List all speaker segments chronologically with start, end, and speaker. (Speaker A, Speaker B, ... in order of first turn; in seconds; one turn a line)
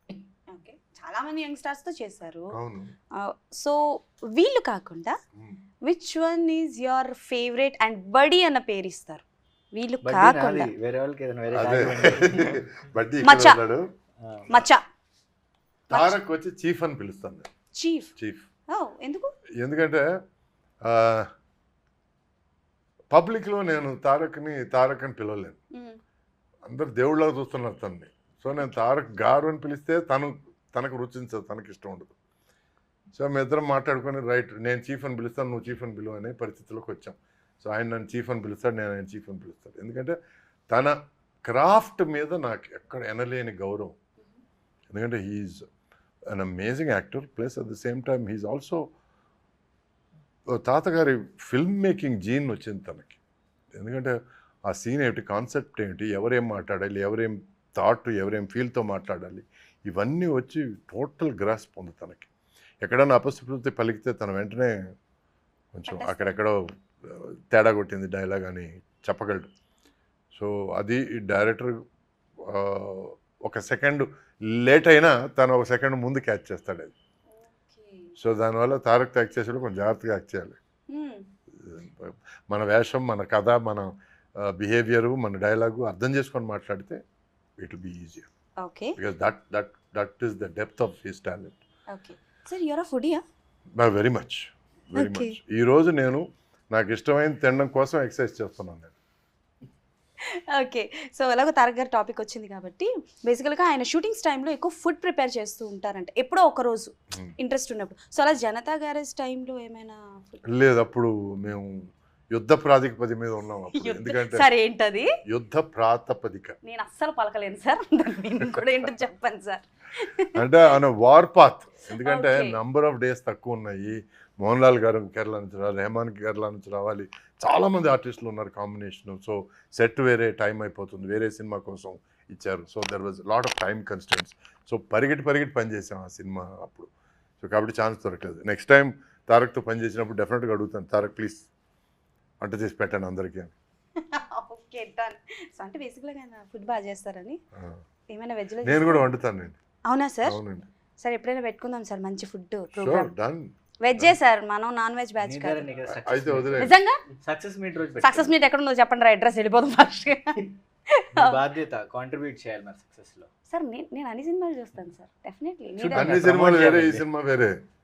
Speaker A: 0.5-2.5
Speaker B: 2.5-3.0
Speaker A: 3.2-5.2
Speaker B: 5.4-5.6
Speaker A: 5.9-10.7
Speaker C: 10.0-12.6
Speaker B: 11.5-13.8
Speaker A: 13.2-13.6
Speaker C: 14.2-14.5
Speaker A: 14.5-14.8
Speaker A: 15.9-16.2
Speaker B: 15.9-17.5
Speaker A: 17.8-18.1
Speaker B: 18.2-18.5
Speaker A: 18.7-19.3
Speaker B: 19.6-20.1
Speaker B: 20.9-21.3
Speaker B: 23.1-25.6
Speaker A: 25.7-26.0
Speaker B: 26.7-32.1
Speaker B: 33.2-40.2
Speaker B: 40.7-44.0
Speaker B: 44.9-45.6
Speaker B: 46.3-48.9
Speaker B: 50.5-53.2
Speaker B: 53.7-62.3
Speaker B: 62.8-64.8
Speaker B: 65.7-69.5
Speaker A: 65.9-66.3
Speaker B: 70.3-71.8
Speaker B: 72.5-76.9
Speaker A: 77.3-78.1
Speaker B: 78.2-80.6
Speaker A: 80.9-81.2
Speaker B: 81.6-87.0
Speaker B: 87.6-88.3
Speaker A: 88.6-89.0
Speaker B: 89.0-91.6
Speaker A: 91.9-93.2
Speaker B: 93.8-99.0
Speaker A: 95.0-95.4
Speaker A: 100.5-110.4
Speaker B: 110.5-111.7
Speaker B: 112.3-114.5
Speaker A: 113.7-115.1
Speaker B: 115.3-116.6
Speaker A: 116.6-120.4
Speaker B: 120.4-136.9
Speaker A: 122.0-122.6
Speaker B: 137.4-141.5
Speaker B: 142.4-143.5
Speaker A: 144.0-147.4
Speaker A: 148.1-149.1
Speaker B: 148.6-149.6
Speaker A: 149.8-150.4
Speaker B: 150.3-150.7
Speaker A: 151.0-153.1
Speaker B: 152.7-154.2
Speaker A: 153.8-155.7
Speaker C: 155.2-158.4
Speaker B: 155.9-156.8
Speaker A: 156.6-157.0
Speaker A: 158.0-160.4
Speaker A: 160.9-161.4
Speaker C: 161.1-163.3
Speaker A: 163.5-166.2
Speaker C: 165.8-167.1
Speaker B: 165.9-167.5